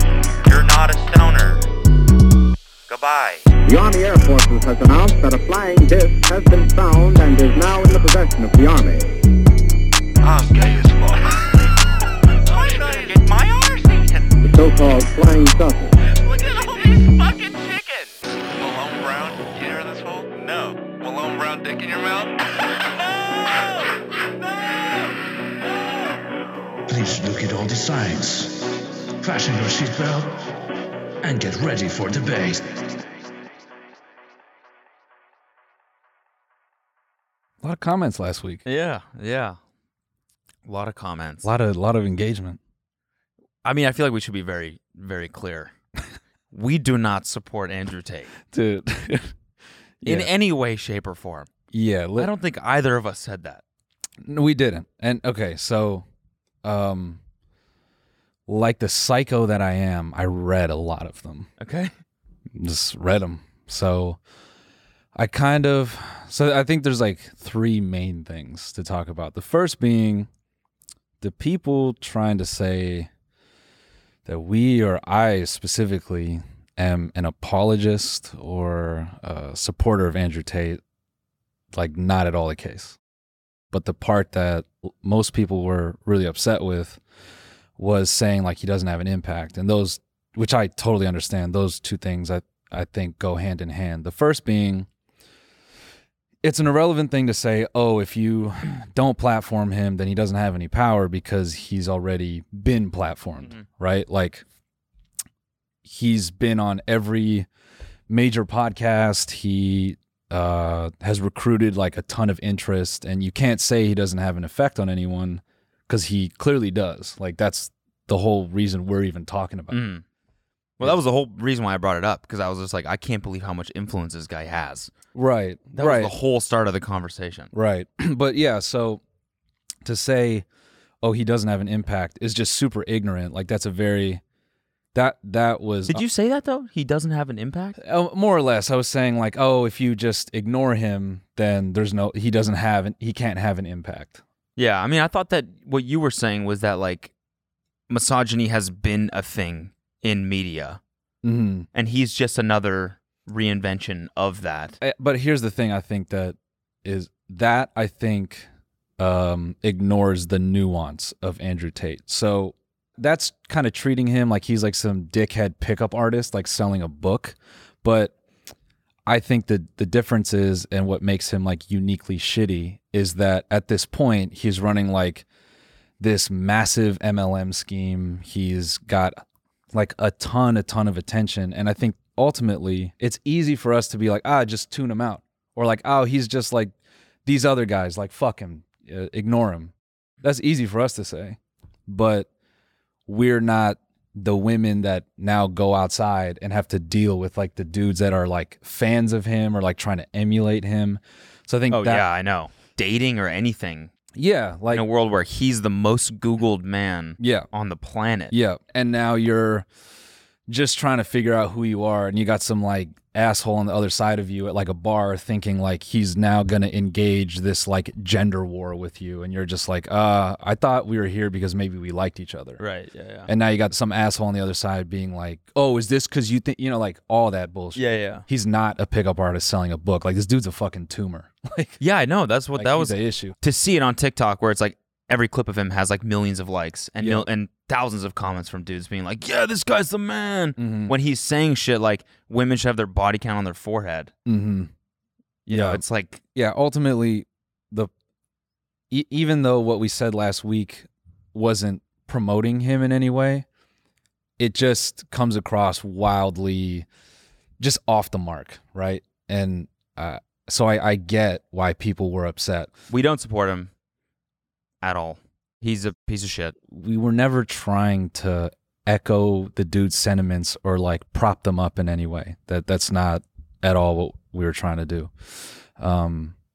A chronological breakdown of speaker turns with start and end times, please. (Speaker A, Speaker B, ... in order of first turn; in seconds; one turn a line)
Speaker A: 0.4-1.7
Speaker A: 2.9-3.5
Speaker B: 3.6-9.2
Speaker A: 10.2-11.7
Speaker A: 12.4-14.4
Speaker B: 14.4-15.9
Speaker A: 16.0-22.4
Speaker C: 26.9-30.4
Speaker C: 31.2-32.8
Speaker D: 37.6-38.6
Speaker E: 38.7-39.6
Speaker E: 40.7-41.5
Speaker D: 41.4-42.6
Speaker E: 43.6-45.7
Speaker E: 46.5-48.3
Speaker D: 48.5-49.3
Speaker D: 50.0-50.3
Speaker E: 50.0-51.5
Speaker D: 51.7-52.3
Speaker E: 52.2-53.6
Speaker D: 54.2-56.1
Speaker D: 56.6-57.2
Speaker D: 58.5-61.5
Speaker E: 61.6-61.9
Speaker D: 62.6-64.2
Speaker D: 65.2-70.3
Speaker D: 71.2-73.1
Speaker D: 74.2-80.8
Speaker D: 81.7-83.0
Speaker D: 83.7-87.0
Speaker D: 87.8-94.9
Speaker D: 96.4-104.5
Speaker E: 103.4-103.7
Speaker D: 105.8-107.5
Speaker D: 108.1-119.8
Speaker E: 119.7-120.0
Speaker E: 120.8-124.9
Speaker D: 125.1-126.1
Speaker E: 125.7-127.5
Speaker D: 127.5-129.0
Speaker D: 129.8-130.5
Speaker D: 131.0-134.2
Speaker D: 134.9-136.0
Speaker E: 135.9-137.8
Speaker D: 137.8-144.2
Speaker E: 144.6-147.1
Speaker E: 147.9-150.8
Speaker D: 151.2-151.7
Speaker E: 151.7-154.8
Speaker D: 154.8-168.2
Speaker D: 169.1-175.3
Speaker D: 176.0-179.2
Speaker D: 179.7-192.3
Speaker D: 193.1-202.1
Speaker E: 201.7-203.9
Speaker D: 204.1-204.9
Speaker E: 204.7-208.3
Speaker D: 207.2-207.5
Speaker D: 208.3-209.7
Speaker D: 210.5-222.6
Speaker E: 222.6-223.3
Speaker D: 223.3-231.8
Speaker E: 227.8-228.2
Speaker E: 231.8-244.1
Speaker D: 232.5-233.4
Speaker D: 237.0-237.3
Speaker D: 240.6-240.9
Speaker D: 244.3-244.7
Speaker D: 245.5-245.8
Speaker E: 245.5-246.2
Speaker D: 246.3-247.9
Speaker D: 248.9-253.4
Speaker D: 254.4-256.9
Speaker D: 257.6-262.7
Speaker E: 262.9-263.7
Speaker E: 264.8-266.6
Speaker D: 266.7-276.4